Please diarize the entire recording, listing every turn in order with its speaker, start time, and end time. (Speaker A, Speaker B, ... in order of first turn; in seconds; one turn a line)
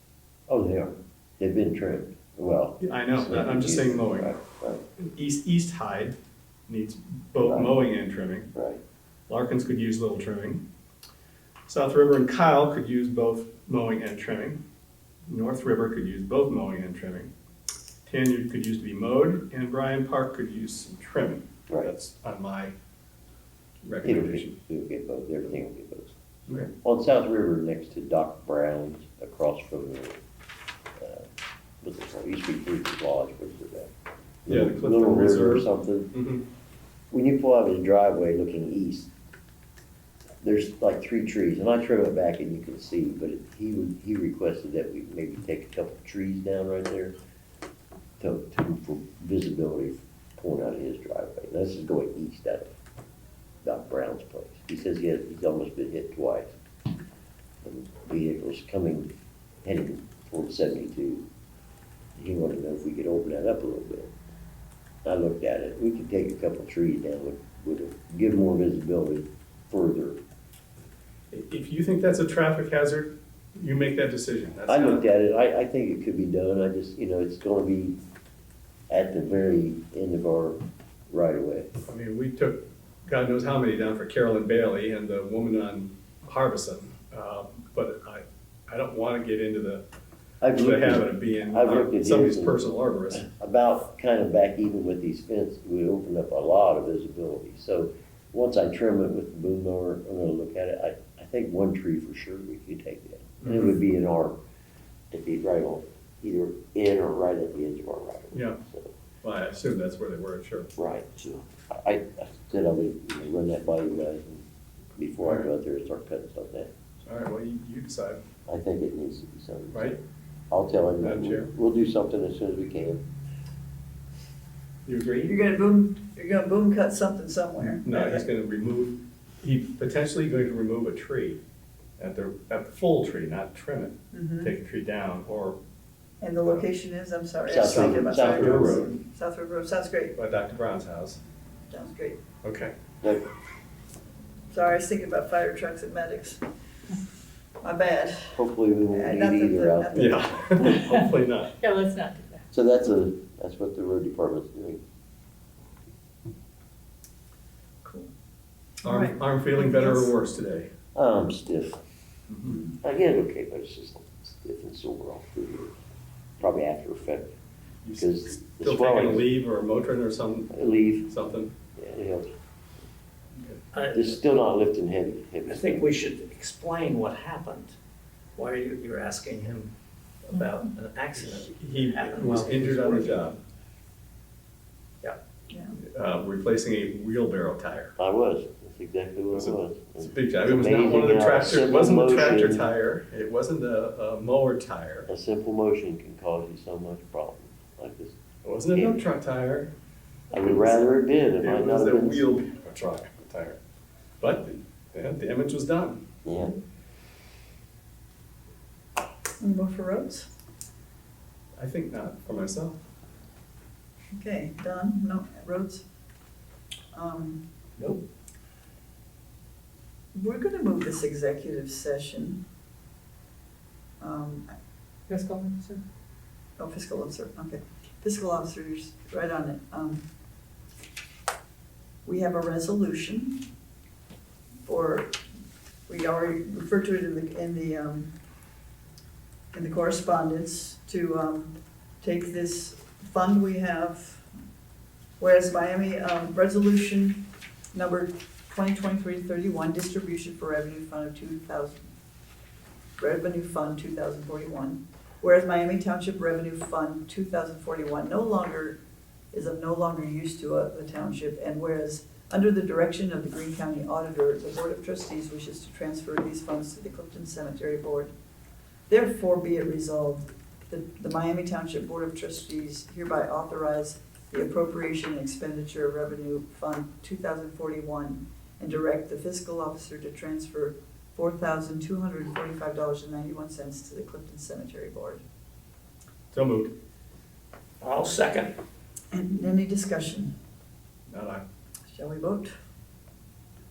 Speaker A: 0.5-4.8
Speaker B: 2.8-4.3
Speaker B: 5.0-6.2
Speaker B: 6.7-8.5
Speaker A: 7.4-7.8
Speaker A: 8.5-8.8
Speaker B: 9.3-10.6
Speaker B: 11.7-14.6
Speaker B: 15.3-17.3
Speaker B: 18.1-22.7
Speaker B: 23.8-24.6
Speaker A: 24.0-26.1
Speaker B: 26.5-26.7
Speaker A: 26.8-30.2
Speaker A: 31.0-31.3
Speaker A: 31.8-33.9
Speaker A: 34.5-36.1
Speaker B: 34.5-36.4
Speaker A: 37.1-39.1
Speaker A: 40.4-47.1
Speaker A: 48.2-52.7
Speaker A: 53.6-56.5
Speaker A: 57.6-59.1
Speaker A: 59.6-61.3
Speaker A: 62.1-64.1
Speaker A: 65.0-70.2
Speaker B: 71.3-75.0
Speaker A: 74.7-78.0
Speaker A: 78.9-81.7
Speaker B: 81.9-89.8
Speaker A: 90.4-104.4
Speaker B: 90.6-93.3
Speaker B: 103.4-103.7
Speaker A: 105.1-108.9
Speaker B: 108.3-108.6
Speaker B: 109.2-110.7
Speaker A: 110.8-116.7
Speaker B: 117.0-118.2
Speaker A: 118.5-123.0
Speaker B: 119.7-120.0
Speaker B: 121.0-121.5
Speaker B: 124.9-125.3
Speaker C: 125.2-128.2
Speaker B: 127.8-131.4
Speaker B: 132.0-135.6
Speaker C: 134.1-134.5
Speaker C: 136.2-140.1
Speaker A: 137.5-138.9
Speaker B: 137.6-138.9
Speaker B: 140.2-141.2
Speaker C: 141.7-142.2
Speaker B: 142.4-142.7
Speaker C: 144.5-146.4
Speaker C: 147.6-148.4
Speaker A: 148.4-150.4
Speaker C: 148.9-150.2
Speaker B: 149.9-151.5
Speaker D: 150.7-151.1
Speaker D: 151.6-152.4
Speaker A: 152.5-154.8
Speaker C: 157.8-158.1
Speaker B: 158.8-160.7
Speaker C: 158.8-160.1
Speaker A: 160.9-161.8
Speaker B: 162.3-162.6
Speaker C: 162.5-162.7
Speaker A: 162.8-165.8
Speaker A: 166.4-167.3
Speaker B: 167.8-171.5
Speaker A: 168.0-169.3
Speaker A: 170.5-171.1
Speaker A: 171.8-172.3
Speaker E: 173.7-174.2
Speaker A: 173.9-175.9
Speaker E: 175.5-177.8
Speaker E: 178.4-179.7
Speaker E: 180.3-183.3
Speaker B: 181.4-183.4
Speaker C: 185.5-185.8
Speaker B: 185.8-187.9
Speaker A: 188.0-192.7
Speaker B: 189.3-195.1
Speaker A: 195.1-198.2
Speaker B: 198.4-199.7
Speaker A: 200.3-202.3
Speaker B: 200.4-200.8
Speaker B: 201.4-203.6
Speaker B: 204.2-206.0
Speaker A: 206.2-206.5
Speaker C: 209.4-210.3
Speaker B: 211.6-212.8
Speaker C: 214.1-215.8
Speaker C: 216.9-217.4
Speaker C: 220.1-222.4
Speaker C: 224.0-224.5
Speaker D: 225.1-225.8
Speaker C: 226.6-230.0
Speaker C: 232.1-233.4
Speaker C: 234.7-235.1
Speaker C: 235.9-238.1
Speaker C: 239.5-244.3
Speaker C: 245.2-251.9
Speaker C: 253.0-258.8
Speaker C: 259.3-268.1
Speaker C: 268.9-285.2
Speaker B: 286.3-286.7
Speaker E: 287.8-288.5
Speaker C: 289.1-290.3
Speaker B: 291.1-291.4
Speaker C: 291.9-292.5